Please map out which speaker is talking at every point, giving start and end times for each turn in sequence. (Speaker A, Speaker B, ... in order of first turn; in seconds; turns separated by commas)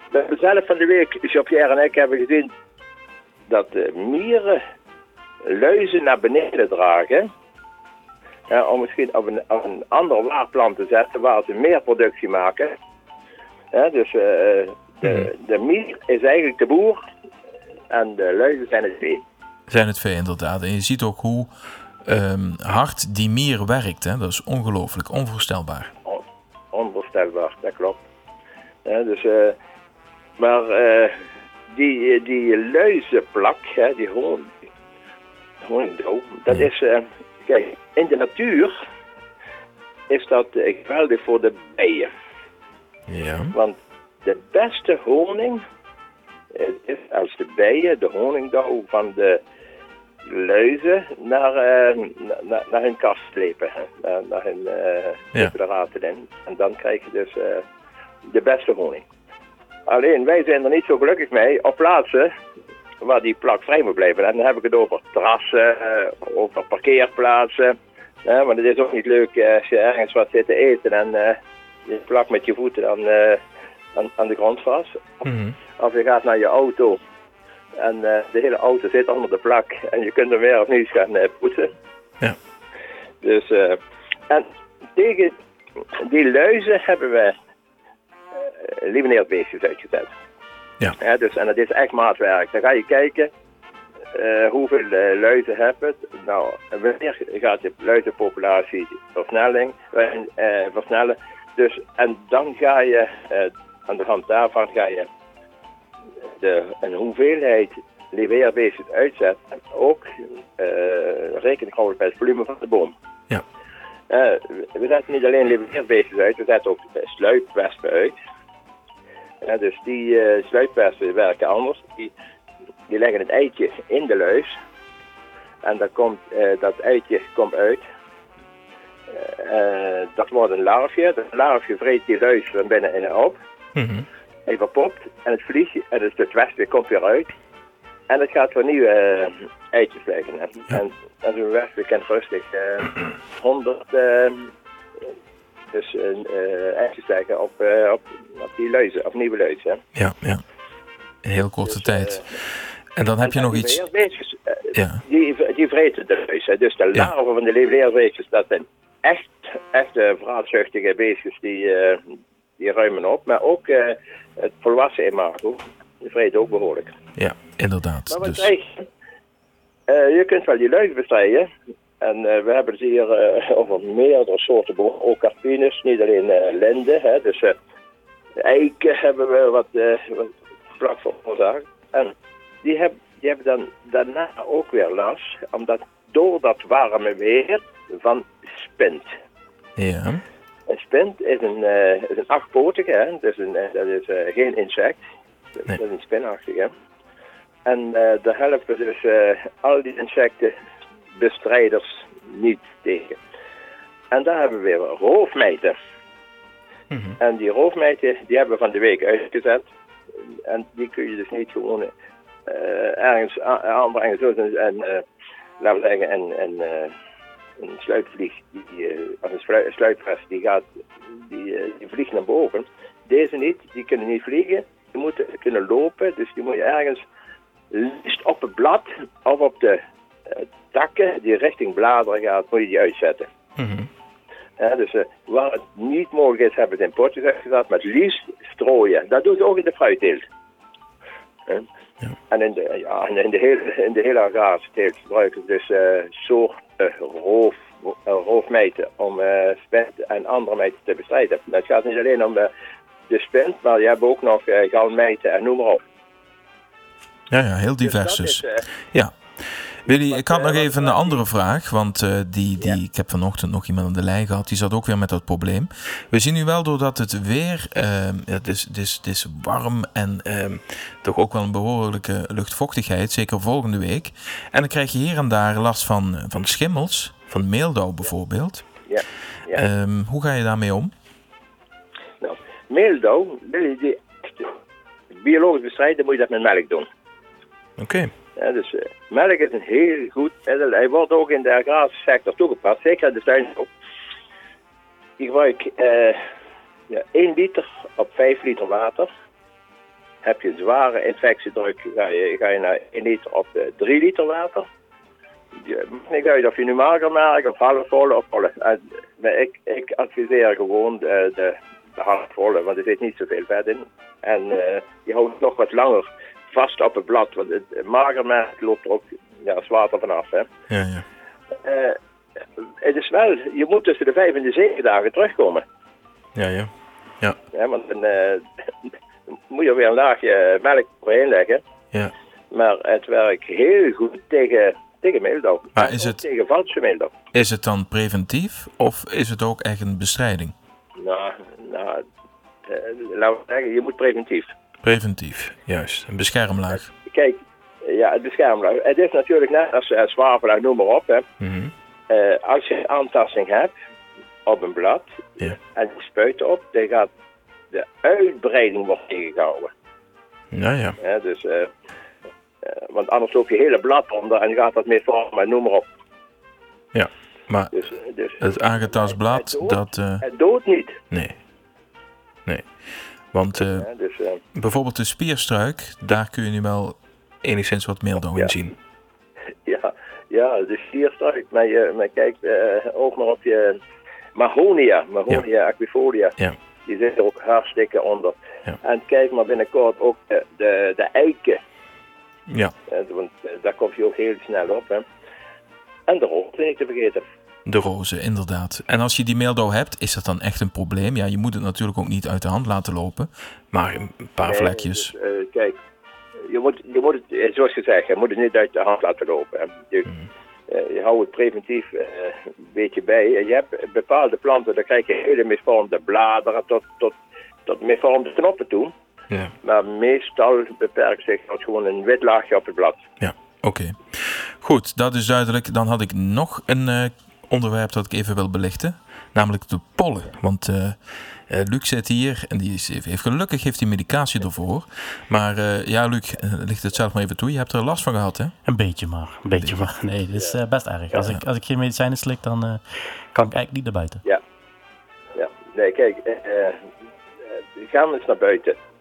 Speaker A: 0.1-2.5, Speaker A: 3.5-4.6, Speaker A: 5.4-7.3, Speaker A: 8.5-12.7, Speaker A: 13.7-17.0, Speaker A: 17.9-19.2, Speaker B: 19.7-21.5, Speaker B: 22.1-25.9, Speaker A: 26.1-28.0, Speaker A: 28.9-29.6, Speaker A: 30.4-34.5, Speaker A: 35.6-38.7, Speaker A: 40.1-42.1, Speaker B: 43.1-43.5, Speaker A: 43.5-45.6, Speaker A: 46.5-49.4, Speaker A: 50.3-57.6, Speaker A: 58.3-59.0, Speaker A: 59.9-62.3, Speaker A: 63.0-73.4, Speaker A: 74.0-75.3, Speaker B: 75.2-75.5, Speaker A: 75.8-77.0, Speaker A: 77.8-81.7, Speaker A: 83.2-85.4, Speaker A: 86.0-87.3, Speaker A: 88.6-90.1, Speaker A: 91.0-93.3, Speaker A: 94.1-105.1, Speaker A: 106.4-110.1, Speaker A: 110.6-112.9, Speaker A: 114.1-118.2, Speaker A: 119.4-122.1, Speaker A: 122.9-124.5, Speaker A: 125.6-127.8, Speaker A: 129.2-133.4, Speaker B: 133.8-134.1, Speaker A: 134.5-137.3, Speaker A: 138.1-144.5, Speaker A: 145.7-149.8, Speaker B: 150.0-150.4, Speaker B: 151.2-152.2, Speaker A: 151.7-152.2, Speaker B: 153.0-153.8, Speaker A: 153.2-162.0, Speaker B: 154.8-155.0, Speaker A: 162.6-166.9, Speaker B: 167.2-168.5, Speaker A: 168.1-168.9, Speaker A: 169.9-171.5, Speaker A: 172.0-177.5, Speaker A: 178.4-189.1, Speaker B: 189.8-190.2, Speaker A: 190.7-195.0, Speaker A: 195.6-196.7, Speaker A: 197.7-200.5, Speaker A: 201.2-203.2, Speaker A: 204.1-205.7, Speaker B: 206.9-207.2, Speaker A: 207.2-209.7, Speaker A: 210.5-211.9, Speaker A: 212.5-215.0, Speaker A: 215.6-216.9, Speaker A: 217.6-227.0, Speaker A: 227.7-229.8, Speaker A: 230.3-233.3, Speaker B: 233.6-233.9, Speaker A: 234.6-240.2, Speaker A: 242.3-252.5, Speaker A: 253.1-255.8, Speaker B: 257.3-259.1, Speaker A: 257.8-258.7, Speaker B: 259.9-278.6, Speaker A: 260.0-261.2, Speaker A: 278.9-279.6, Speaker B: 279.5-280.9, Speaker A: 282.2-284.5, Speaker A: 285.1-286.9, Speaker B: 287.8-288.1, Speaker A: 288.4-293.7, Speaker A: 295.2-296.2, Speaker A: 296.9-299.1, Speaker A: 300.2-304.6, Speaker A: 305.6-320.5, Speaker B: 320.7-321.0, Speaker A: 321.6-322.0, Speaker A: 322.8-325.6, Speaker B: 326.4-326.7, Speaker A: 327.5-328.4, Speaker A: 329.5-331.6, Speaker A: 332.5-337.1, Speaker B: 335.8-336.2, Speaker B: 337.3-340.5, Speaker A: 341.0-342.0, Speaker A: 342.7-344.5, Speaker B: 344.8-346.9, Speaker A: 346.7-351.2, Speaker B: 351.4-351.7, Speaker A: 352.1-353.7, Speaker A: 354.4-357.1, Speaker A: 357.7-359.7, Speaker B: 360.5-361.0, Speaker A: 361.0-361.7, Speaker A: 362.6-365.9, Speaker B: 366.9-367.7, Speaker A: 367.7-371.0, Speaker B: 368.4-370.2, Speaker B: 371.1-371.4, Speaker B: 373.3-373.9, Speaker A: 373.6-374.4, Speaker B: 374.6-378.8, Speaker A: 379.7-383.8, Speaker A: 384.4-391.6, Speaker A: 392.9-395.0, Speaker A: 396.1-397.2, Speaker B: 397.7-405.1, Speaker A: 404.4-405.8, Speaker A: 406.5-410.1, Speaker A: 410.7-418.9, Speaker A: 419.6-423.0, Speaker B: 423.2-431.0, Speaker B: 431.5-438.6, Speaker C: 438.7-442.8, Speaker B: 439.5-439.9, Speaker C: 443.3-444.2, Speaker A: 445.4-446.8, Speaker A: 447.8-448.8